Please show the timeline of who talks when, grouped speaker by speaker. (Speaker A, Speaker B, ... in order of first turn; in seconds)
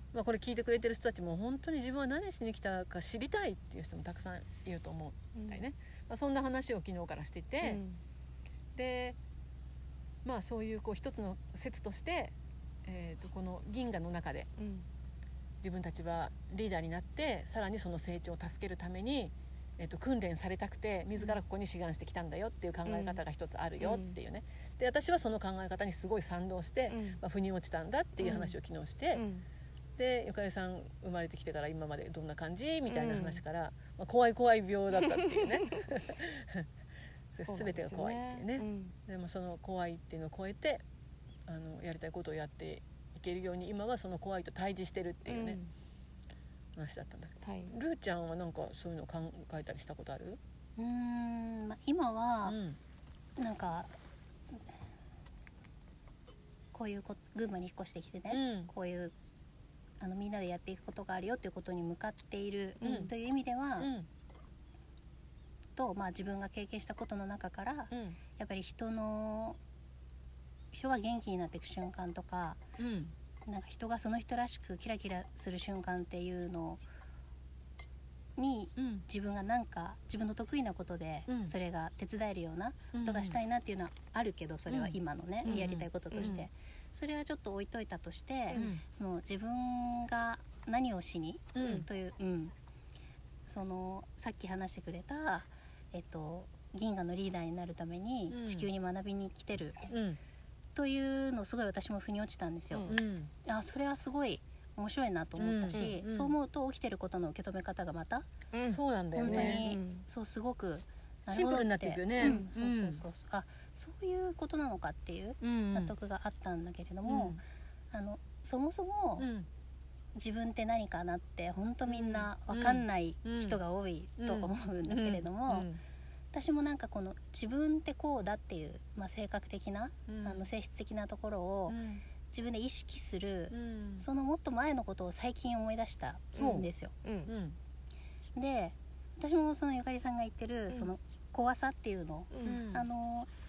Speaker A: 0.1-7.8, 8.8-9.2, 10.2-12.3, 12.9-14.5, 15.6-29.2, 30.0-36.7, 37.4-40.8, 41.5-45.6, 46.8-50.4, 52.5-52.8, 58.3-58.7, 62.8-63.1, 63.8-64.1, 67.9-68.2, 72.8-73.1, 78.8-79.0, 81.3-81.5, 82.9-83.4, 84.7-86.5, 88.5-88.8, 91.5-91.9, 98.3-98.7, 99.9-100.2, 102.9-103.3, 105.4-106.3, 108.6-109.7, 111.3-113.0, 115.4-115.9, 117.0-117.4, 119.2-119.5, 121.9-123.6, 124.2-125.8, 130.1-130.5, 131.7-132.0, 133.5-134.1, 136.4-136.7, 137.2-137.6, 142.4-142.9
Speaker B: 5.4-5.6, 7.6-8.0, 14.6-14.9, 22.9-23.2, 23.8-24.2, 26.9-27.2, 28.2-28.6, 29.1-29.4, 32.9-33.4, 37.4-38.9, 45.3-45.7, 47.4-47.7, 62.8-63.1, 85.5-86.4, 102.7-103.0, 108.5-110.0, 136.4-137.3, 142.3-142.7
Speaker C: 50.8-52.6, 53.4-53.9, 56.7-59.1, 60.0-63.9, 65.8-69.6, 70.7-72.6, 73.5-76.8, 78.4-92.5, 93.5-99.9, 100.8-108.3, 109.2-117.4, 117.9-119.3, 120.2-125.7, 126.3-136.9, 138.3-143.3